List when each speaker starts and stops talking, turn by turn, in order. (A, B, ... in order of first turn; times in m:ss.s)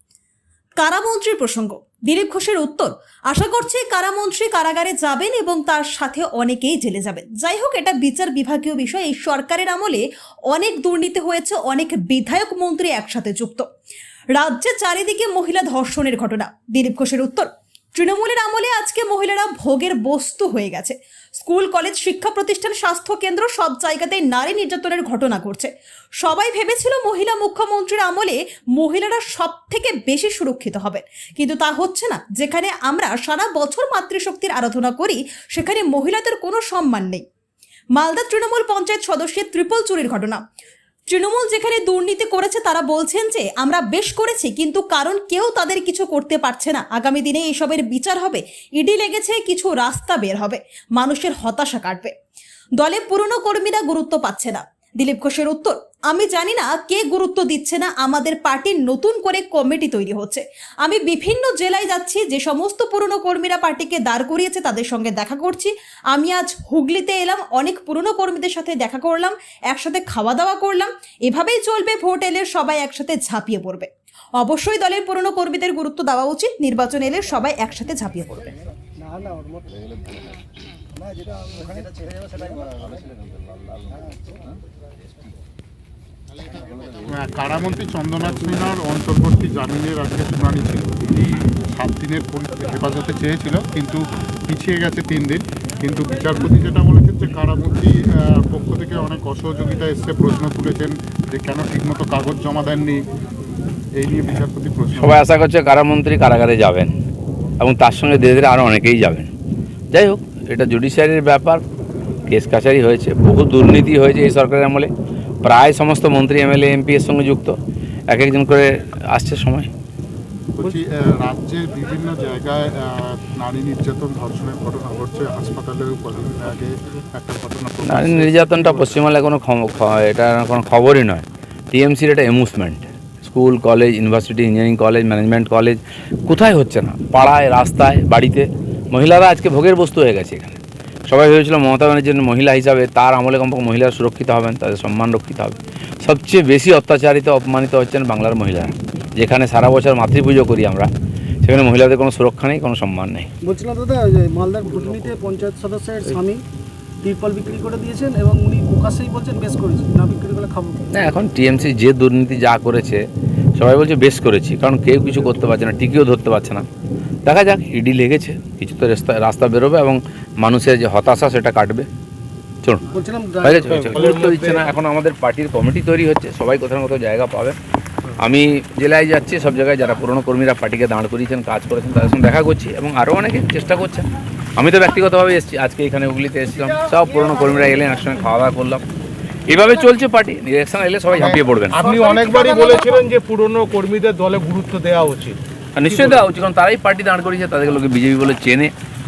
0:00.8-0:13.7 A
0:14.3-0:25.7 A
0:26.2-0:37.2 A
0:38.0-0:40.4 A
0:41.1-0:52.1 A
0:52.8-1:13.9 A
1:14.4-1:18.5 A
1:19.0-1:19.6 B
1:27.2-1:43.0 C
1:43.9-1:45.2 C
1:44.9-1:46.9 D
1:47.6-1:49.3 D
1:49.9-1:51.6 D
1:52.3-1:54.9 D
1:55.4-1:57.5 D
1:58.1-1:59.7 D
2:00.6-2:08.9 C
2:07.8-2:30.9 D
2:31.4-2:33.3 D
2:33.4-2:36.4 B
2:34.6-2:35.1 E
2:37.0-2:40.9 B
2:40.9-2:43.0 D
2:43.6-2:46.6 D
2:47.2-2:51.8 D
2:52.9-2:53.9 B
2:53.4-2:57.6 D
2:53.7-2:54.7 E
2:58.2-3:08.8 D
3:09.5-3:11.8 D
3:11.2-3:16.2 E
3:11.8-3:13.0 B
3:15.8-3:18.7 D